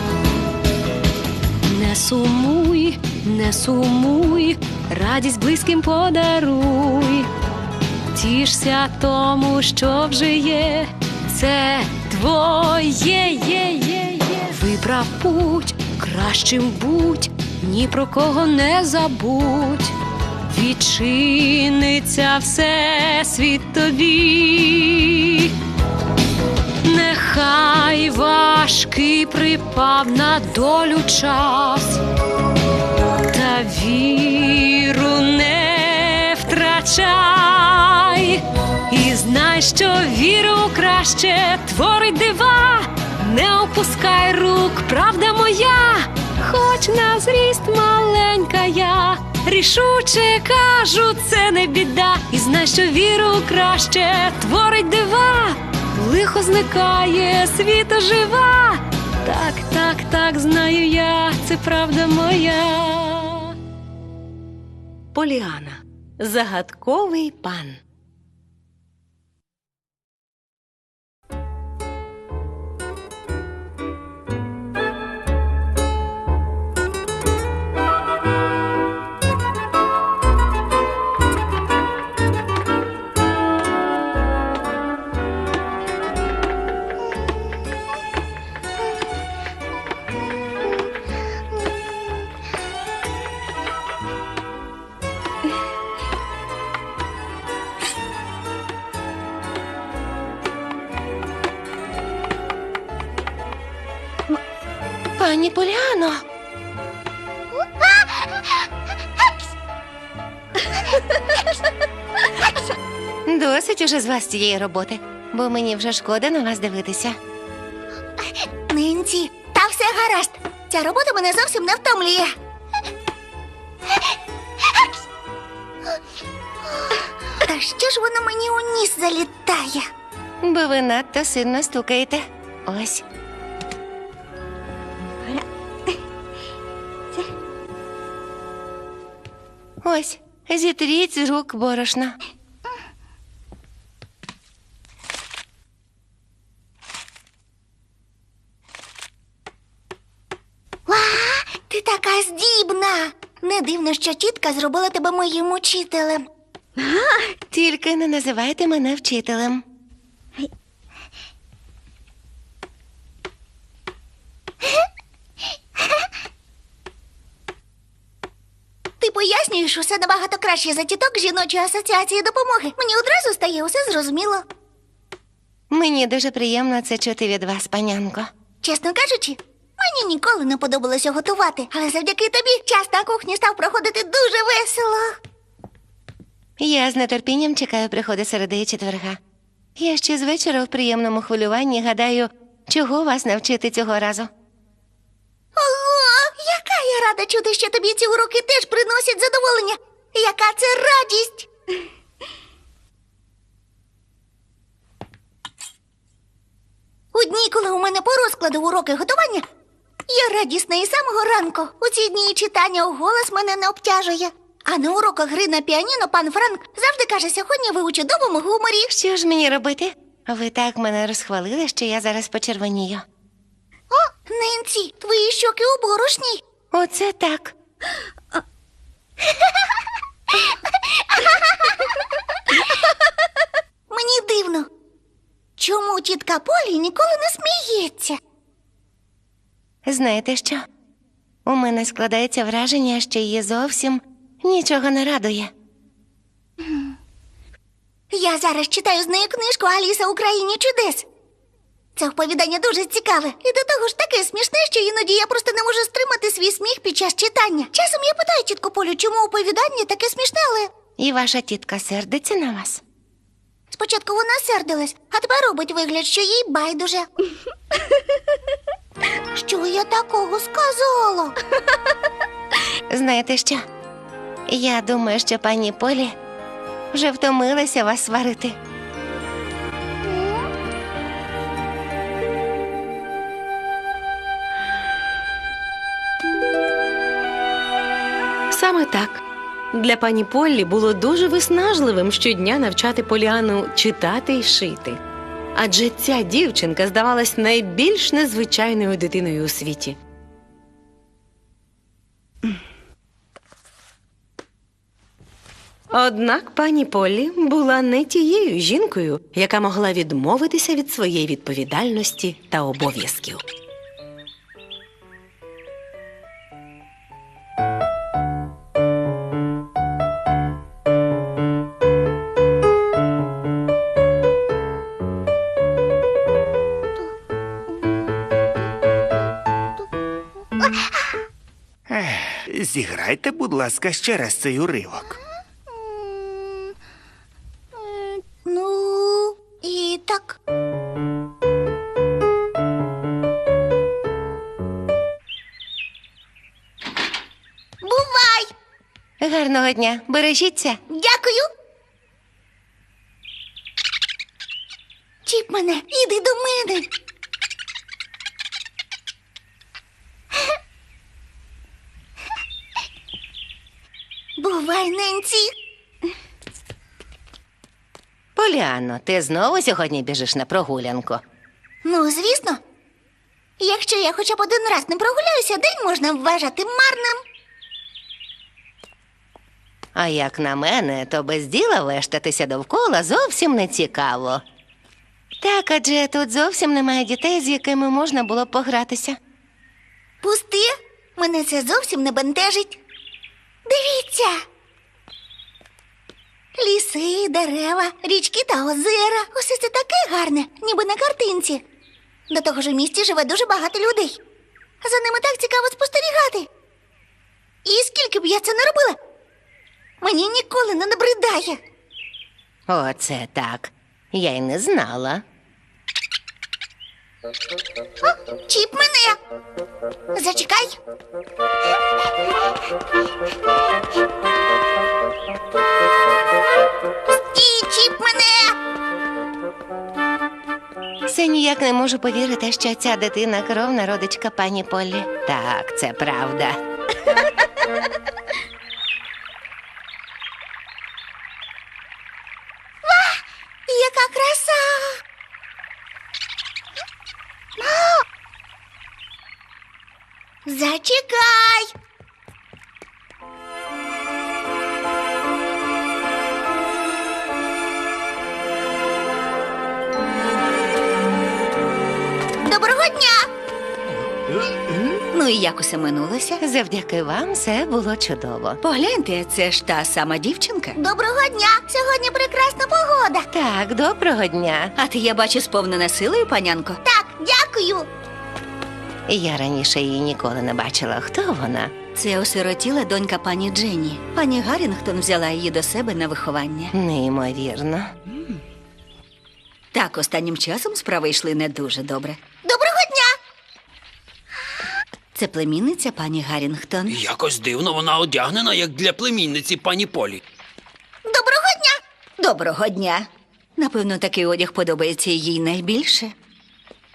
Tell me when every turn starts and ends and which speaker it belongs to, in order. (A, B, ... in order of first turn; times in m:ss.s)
0:01.6-0:07.3 A
0:08.1-0:25.5 A
0:26.8-0:32.0 A
0:33.3-1:03.6 A
1:05.1-1:07.8 B
1:45.2-1:46.2 C
1:53.2-1:57.2 C
1:58.7-2:02.3 D
2:07.4-2:09.9 D
2:10.4-2:13.0 C
2:19.8-2:22.2 C
2:30.9-2:36.2 D
2:37.5-2:39.6 C
2:49.0-2:54.4 D
2:55.7-2:58.3 C
2:58.6-3:05.2 D
3:06.6-3:09.2 C
3:09.8-3:14.3 C
3:15.6-3:21.5 D
3:27.1-3:29.4 D
3:30.1-3:38.9 D
3:38.9-3:43.0 C
3:43.9-3:46.4 D
3:46.7-3:47.5 C
3:53.9-3:54.7 D
3:55.6-3:58.2 D
3:59.8-4:00.6 C
4:01.4-4:05.5 C
4:08.1-4:11.1 D
4:12.0-4:20.7 D
4:21.0-4:22.8 C
4:23.7-4:27.1 D
4:29.3-4:31.4 D
4:32.9-4:33.6 C
4:34.5-4:36.1 C
4:36.9-4:38.6 C
4:48.5-4:49.2 B
4:49.7-4:55.0 B
4:55.6-5:00.0 B
5:05.9-5:13.4 B
5:31.9-5:35.2 E
5:38.4-5:40.4 D
5:47.8-5:48.5 D
5:49.2-5:50.8 C
5:50.9-5:51.5 D
5:55.2-5:56.9 D
6:04.4-6:05.5 D
6:08.4-6:11.2 C
6:11.8-6:12.6 D
6:13.6-6:17.2 D
6:19.9-6:24.4 C
6:25.4-6:29.2 C
6:30.2-6:32.8 D
6:33.6-6:34.4 D
6:36.6-6:41.6 D
6:42.3-6:44.2 D
6:44.8-6:46.5 D
6:47.6-6:49.0 D
6:50.0-6:51.6 D
6:52.7-6:55.2 C
6:58.0-6:59.2 D
7:00.1-7:00.8 D
7:07.1-7:08.6 D
7:11.1-7:16.6 C
7:22.8-7:25.0 D
7:27.6-7:28.0 D
7:30.4-7:31.7 D
7:42.4-7:43.3 D
7:45.1-7:46.4 F
7:46.4-7:48.6 C
7:48.6-7:50.8 F
7:50.8-7:53.2 D
7:53.3-7:54.7 C
7:54.8-7:56.8 F
7:56.8-7:57.9 D
7:59.1-8:01.7 C
8:01.9-8:06.7 F
8:06.7-8:07.9 C
8:09.7-8:12.2 F
8:12.4-8:13.1 D
8:15.1-8:17.0 F
8:16.9-8:20.2 G
8:21.0-8:21.8 D
8:22.2-8:26.1 F